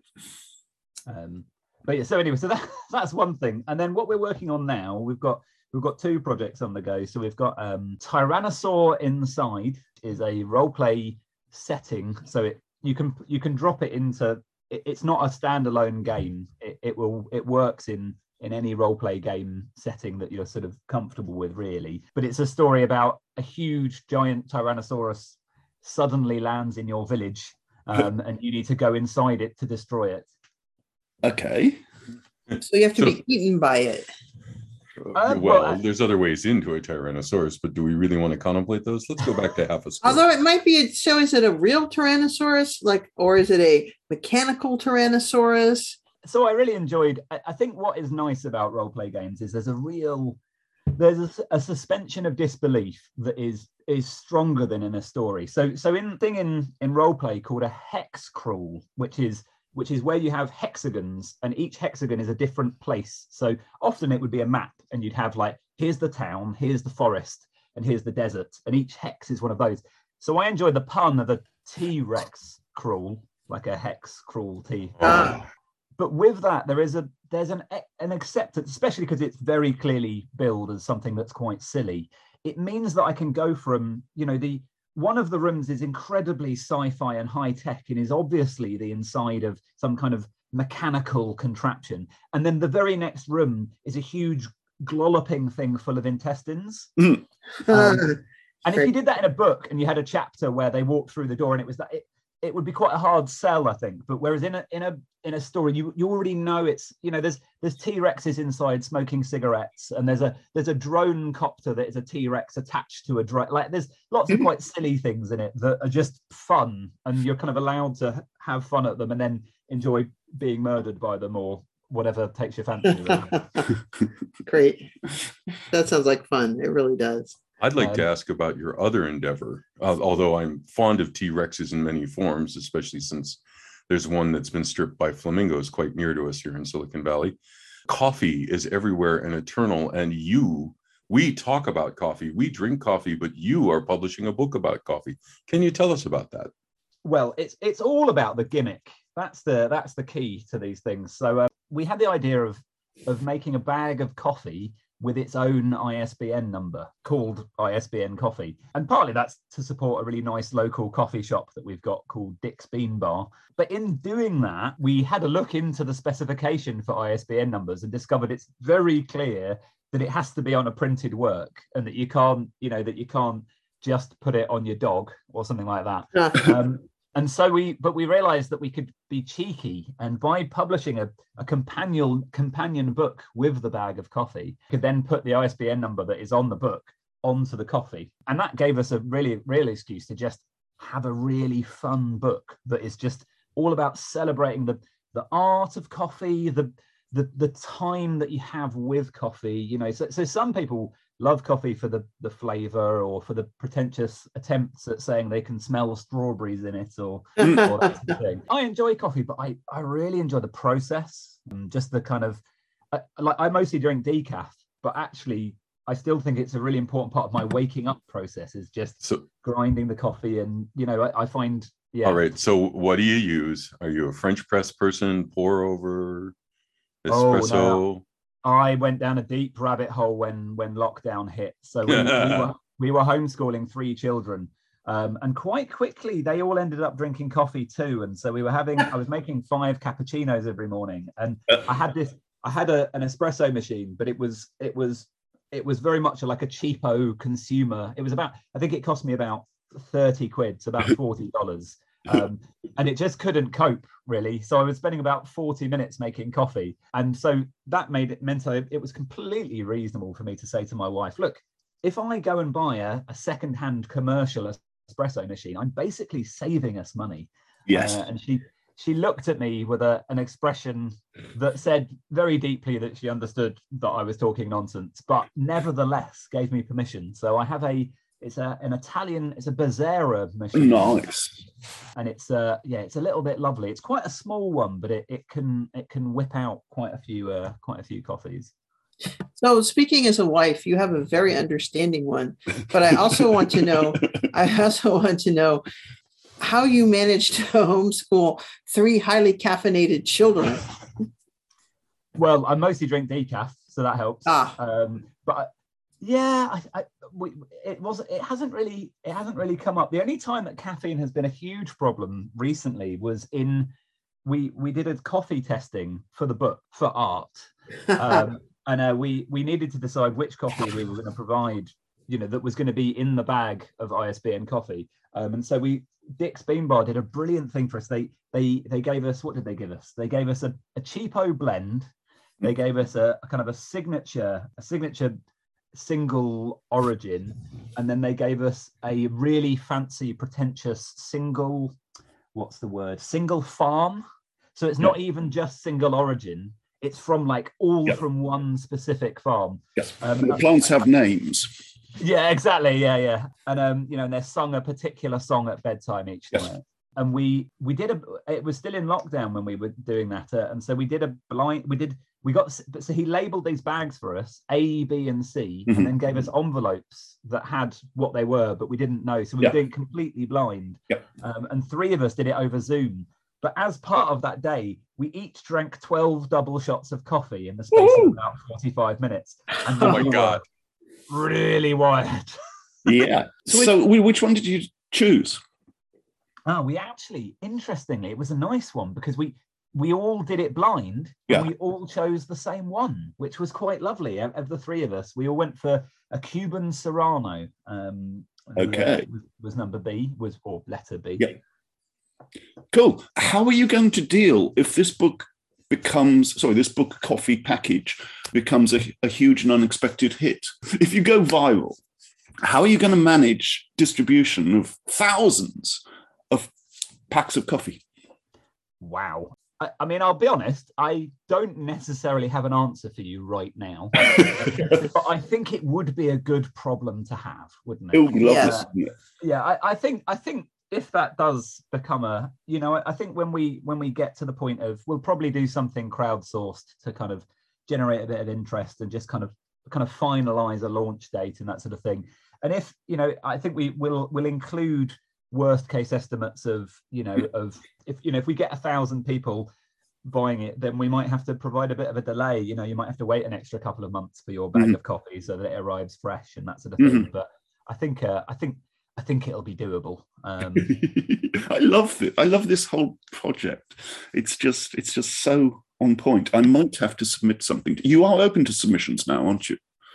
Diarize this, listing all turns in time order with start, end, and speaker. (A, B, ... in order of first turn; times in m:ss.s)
0:01.1-0:30.3 A
0:31.2-0:31.8 B
0:32.6-0:34.1 C
0:35.0-0:40.2 D
0:35.1-0:35.8 A
0:40.0-0:46.0 C
0:46.2-0:50.4 A
0:50.9-1:15.3 A
1:15.0-1:15.4 C
1:16.0-1:36.9 A
1:37.0-1:37.2 B
1:37.7-2:03.5 A
1:37.7-1:38.2 C
2:04.4-2:04.9 C
2:05.7-2:07.3 C
2:07.6-2:17.4 D
2:07.8-2:08.1 A
2:17.9-2:26.5 D
2:27.0-3:32.4 A
3:32.9-3:42.2 A
3:42.0-3:46.3 D
3:47.0-3:48.0 D
3:47.1-3:47.8 A
3:48.4-4:41.1 A
3:51.9-3:52.5 D
4:27.6-4:28.0 B
4:40.5-4:41.3 B
4:42.0-4:48.5 A
4:49.3-4:55.6 C
4:56.4-5:00.8 C
5:02.2-5:13.7 A
5:04.2-5:04.6 C
5:14.2-5:31.9 A
5:32.4-5:35.2 A
5:35.7-5:41.8 A
5:42.3-5:44.0 A
5:44.6-5:50.6 A
5:50.2-5:51.5 B
5:52.0-6:20.4 A
6:05.7-6:05.9 B
6:17.7-6:18.2 B
6:19.8-6:20.4 D
6:21.1-6:22.4 A
6:22.8-6:25.4 B
6:26.4-6:41.3 A
6:38.6-6:39.1 B
6:42.7-6:51.8 B
6:52.4-6:56.5 B
6:57.1-6:57.8 B
6:58.8-7:08.7 A
7:07.9-7:08.9 B
7:08.2-7:08.6 C
7:09.2-7:29.5 A
7:30.0-7:40.7 A
7:36.8-7:37.1 B
7:40.6-7:49.6 B